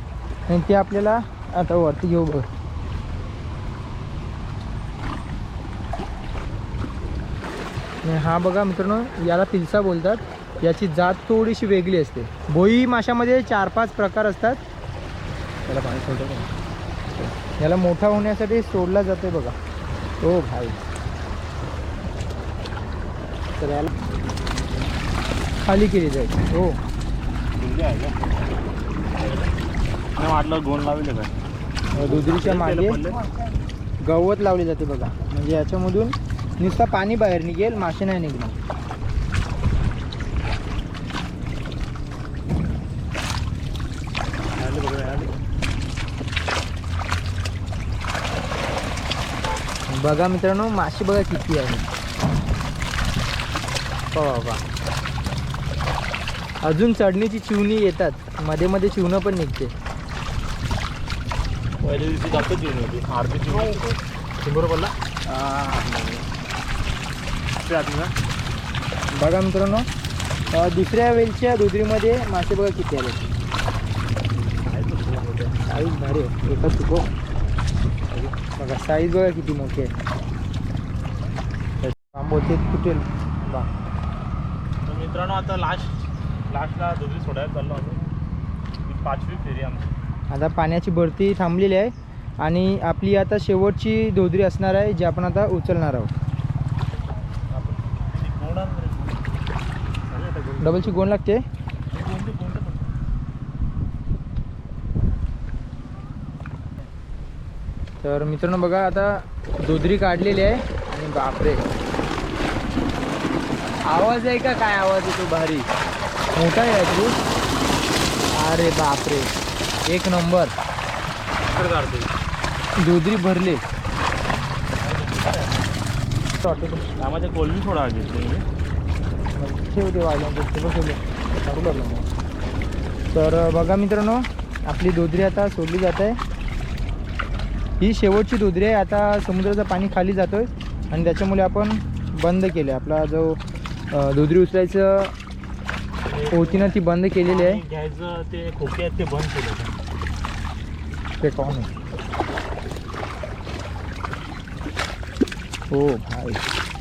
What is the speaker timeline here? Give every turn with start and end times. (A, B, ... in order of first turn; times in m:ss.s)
0:00.5-0:02.4 A
0:08.0-0:14.6 A
0:15.7-0:16.5 A
0:17.6-0:19.6 A
0:20.2-0:20.8 A
0:23.6-0:23.9 A
0:25.6-0:26.8 A
0:27.6-0:28.2 B
0:29.2-0:29.5 B
0:30.2-0:31.3 B
0:31.9-0:33.2 B
0:31.9-0:33.0 A
0:34.0-0:38.5 A
0:44.6-0:45.3 B
0:49.9-0:51.9 A
0:54.1-0:54.6 A
0:56.6-0:59.7 A
1:01.8-1:06.2 B
1:07.6-1:08.1 B
1:09.1-1:09.9 A
1:10.5-1:13.2 A
1:14.6-1:15.6 B
1:15.6-1:17.1 A
1:18.4-1:19.9 A
1:21.8-1:23.7 A
1:24.8-1:25.9 B
1:26.5-1:28.0 B
1:28.8-1:29.9 B
1:30.3-1:36.1 A
1:37.5-1:39.2 B
1:40.1-1:40.7 B
1:40.6-1:41.4 A
1:41.9-1:42.9 B
1:48.0-1:51.6 A
1:53.9-1:55.7 A
1:56.3-1:57.1 A
1:58.3-1:59.3 A
1:59.9-2:00.5 A
2:01.5-2:02.1 B
2:02.8-2:03.6 A
2:04.8-2:05.8 B
2:06.4-2:06.8 A
2:07.0-2:08.4 B
2:09.4-2:12.1 A
2:13.1-2:16.2 A
2:17.8-2:23.4 A
2:23.9-2:25.1 A
2:26.0-2:29.7 B
2:26.3-2:27.6 A
2:31.2-2:31.7 A
2:35.7-2:36.4 A